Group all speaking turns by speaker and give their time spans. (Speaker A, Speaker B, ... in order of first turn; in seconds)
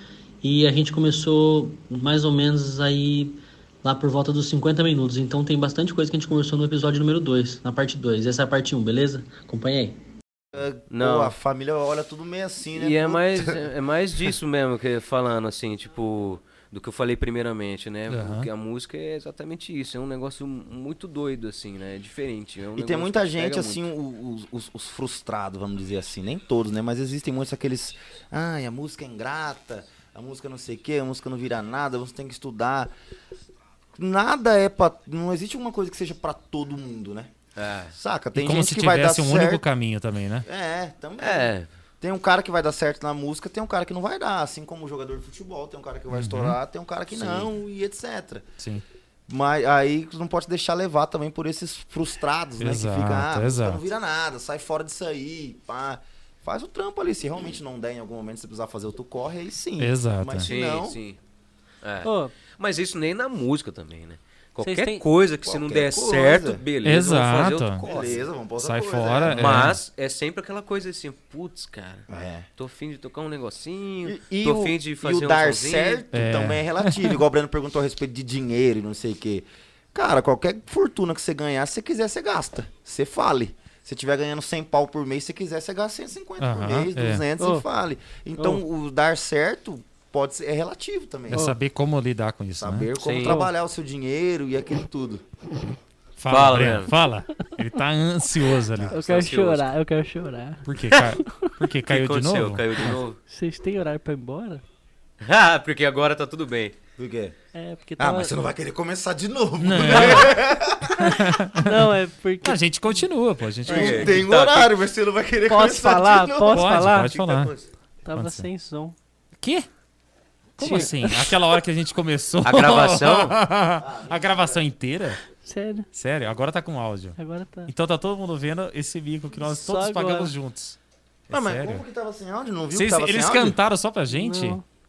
Speaker A: 0.4-10.0
Speaker B: 10.5-13.6, 22.8-32.9, 34.0-37.3, 37.9-39.6, 40.5-48.5, 49.3-61.0, 65.5-66.6, 67.8-69.7, 72.1-72.5, 74.0-91.5, 92.6-95.2, 107.0-107.4, 108.0-111.2, 113.7-116.7, 123.8-124.6, 131.3-133.6
Speaker C: 10.9-11.3, 12.8-23.8, 37.6-38.0, 41.2-41.7, 47.1-47.5, 60.4-61.2, 61.8-68.3, 69.3-76.0, 93.0-93.4, 96.3-96.9, 98.9-99.7, 101.9-103.2, 105.2-106.8, 109.8-110.3, 113.7-114.7, 116.7-117.7, 120.6-120.9, 122.4-123.4
Speaker D: 18.1-18.5, 38.4-40.5, 46.1-46.6, 52.6-53.8, 59.8-60.5, 66.8-67.9, 68.6-69.8, 76.1-77.2, 86.4-87.2, 91.3-92.9, 96.2-99.0, 100.7-103.0, 109.6-111.9, 112.4-114.2, 116.5-117.5, 118.1-118.5, 119.4-119.7, 120.6-125.2, 125.9-130.8, 131.3-131.8, 132.7-134.6
Speaker E: 62.0-62.3, 64.6-65.0, 87.4-87.7, 91.3-91.6, 93.2-93.5, 98.9-101.5, 103.3-104.6, 107.5-108.4, 111.0-113.0, 115.5-117.2, 118.0-119.0, 120.6-121.3, 125.4-125.9, 127.2-127.7, 129.4-130.3, 134.1-134.6